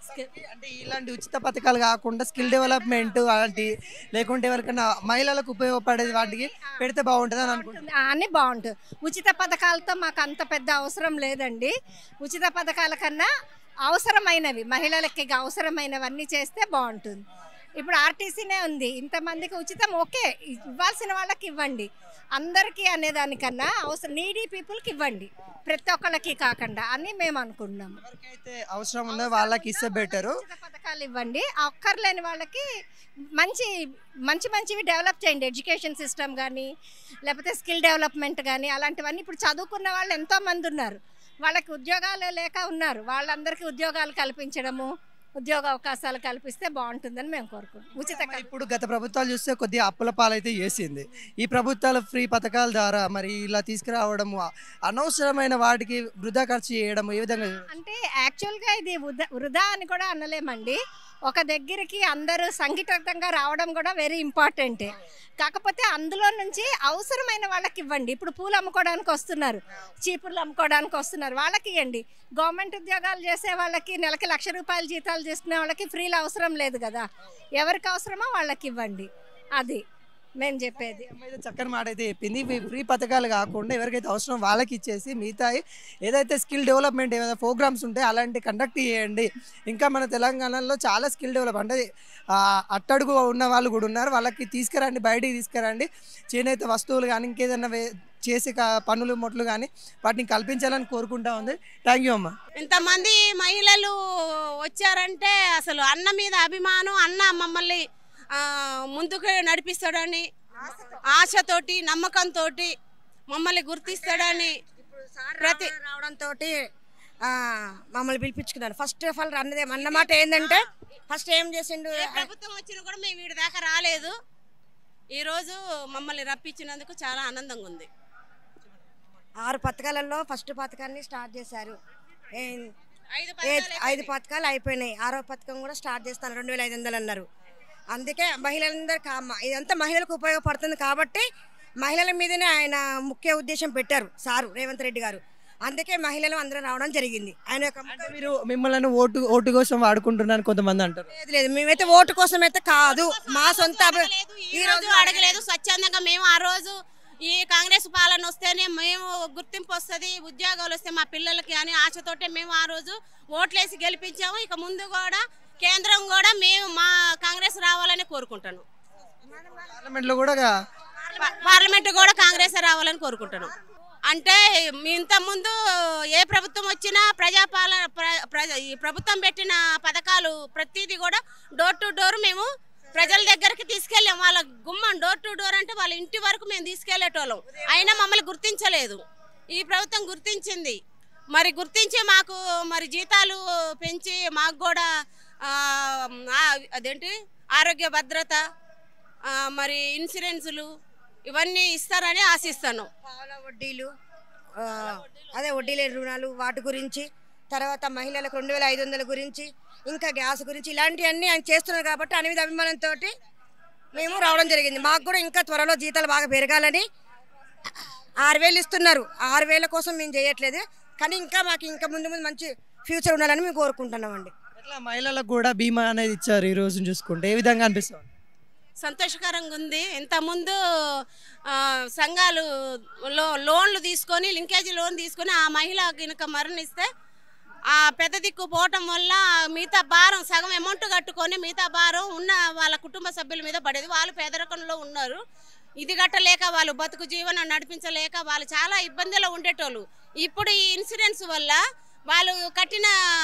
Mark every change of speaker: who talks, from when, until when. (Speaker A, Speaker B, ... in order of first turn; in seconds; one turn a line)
Speaker A: 0.1-7.8
Speaker B: 6.1-6.8
Speaker B: 7.4-13.3
Speaker B: 13.9-17.2
Speaker B: 17.8-28.0
Speaker A: 28.0-30.4
Speaker B: 29.1-32.6
Speaker B: 33.4-33.7
Speaker B: 34.3-36.7
Speaker B: 37.2-48.5
Speaker A: 47.9-57.6
Speaker B: 57.7-77.0
Speaker B: 77.6-79.8
Speaker B: 80.4-81.1
Speaker A: 80.8-91.8
Speaker A: 92.4-102.3
Speaker C: 102.5-103.9
Speaker D: 102.7-103.0
Speaker C: 104.6-107.8
Speaker C: 108.3-110.2
Speaker D: 110.5-111.0
Speaker C: 111.1-112.7
Speaker C: 113.3-114.6
Speaker D: 113.8-116.5
Speaker C: 115.4-115.7
Speaker D: 117.2-122.3
Speaker C: 119.8-120.6
Speaker C: 121.9-124.1
Speaker C: 125.1-127.9
Speaker D: 129.4-131.8
Speaker D: 132.3-132.7
Speaker C: 133.1-134.1
Speaker D: 133.4-137.2
Speaker D: 137.9-141.2
Speaker D: 141.8-148.2
Speaker A: 147.9-151.1
Speaker D: 151.1-155.4
Speaker C: 152.7-156.8
Speaker C: 157.3-168.6
Speaker A: 169.5-170.5
Speaker D: 171.0-172.5
Speaker C: 171.2-173.5
Speaker C: 174.1-175.5
Speaker C: 176.1-189.0
Speaker D: 183.0-183.3
Speaker C: 189.5-190.8
Speaker C: 191.3-194.8
Speaker C: 195.4-198.4
Speaker C: 199.2-200.7
Speaker C: 201.3-202.9
Speaker D: 203.0-203.9
Speaker D: 204.6-213.2
Speaker D: 213.9-216.8
Speaker C: 214.0-214.8
Speaker D: 218.2-224.3
Speaker A: 224.6-228.1
Speaker C: 228.8-230.6
Speaker C: 231.5-232.4
Speaker C: 233.1-236.9
Speaker C: 237.7-245.2
Speaker C: 245.8-252.9